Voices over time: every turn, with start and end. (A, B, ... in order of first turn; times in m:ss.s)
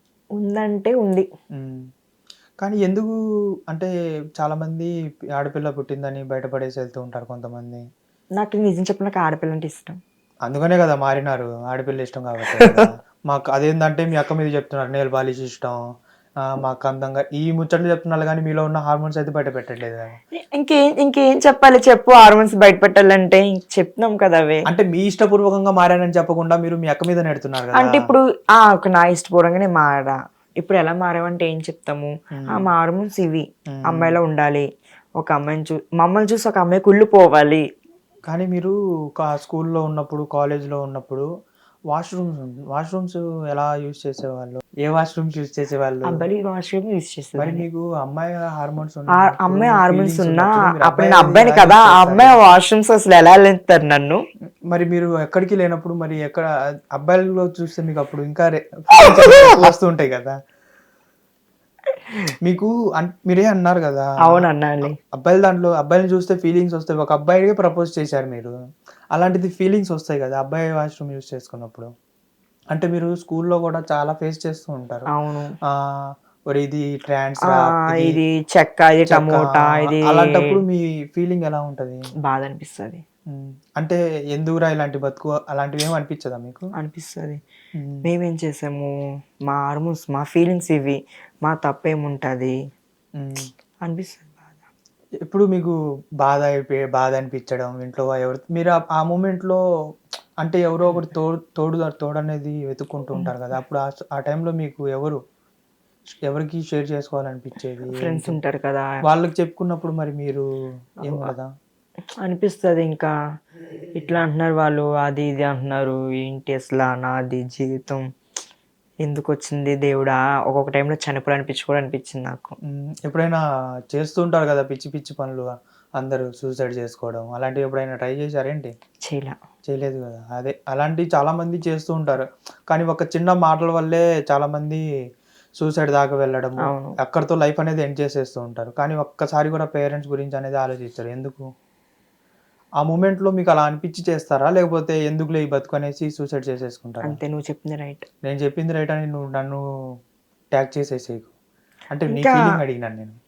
0:00.4-0:01.3 A
0:01.5-0:01.8 B
0:02.6-0:03.1 B
0:03.7-0:07.8 B
0:08.4-0:10.0 A
0:10.4-0:15.8 B
0:16.5-0:20.2 B
0:20.5-0:24.6 A
0:24.7-0:28.1 B
0:27.8-0:34.7 A
0:32.4-0:32.7 B
0:33.7-0:34.2 B
0:35.2-0:37.6 A
0:38.3-0:41.3 B
0:41.9-0:46.2 B
0:46.1-0:47.6 A
0:47.4-0:52.5 B
0:49.2-0:54.2 A
0:54.7-1:00.4 B
1:02.4-1:04.5 B
1:04.3-1:04.9 A
1:05.1-1:08.5 B
1:09.1-1:11.9 B
1:12.7-1:15.1 B
1:15.1-1:15.5 A
1:16.5-1:18.2 B
1:17.5-1:20.4 A
1:19.1-1:22.0 B
1:22.3-1:23.0 A
1:23.3-1:26.7 B
1:26.8-1:27.4 A
1:27.8-1:28.0 B
1:28.0-1:28.9 A
1:29.5-1:32.5 A
1:33.2-1:33.5 B
1:33.8-1:34.6 A
1:35.3-1:39.6 B
1:40.4-1:45.2 B
1:46.3-1:48.4 B
1:48.0-1:48.9 A
1:49.1-1:50.4 B
1:51.0-1:51.5 B
1:52.2-1:53.1 A
1:54.0-1:58.0 A
1:59.0-2:02.6 A
2:02.7-2:03.4 B
2:03.9-2:08.7 B
2:09.0-2:09.4 A
2:09.6-2:14.8 B
2:15.6-2:21.5 B
2:16.6-2:16.9 A
2:22.8-2:27.2 B
2:27.0-2:28.1 A
2:28.2-2:29.6 B
2:30.5-2:31.3 B
2:31.9-2:33.2 B
2:32.1-2:32.4 A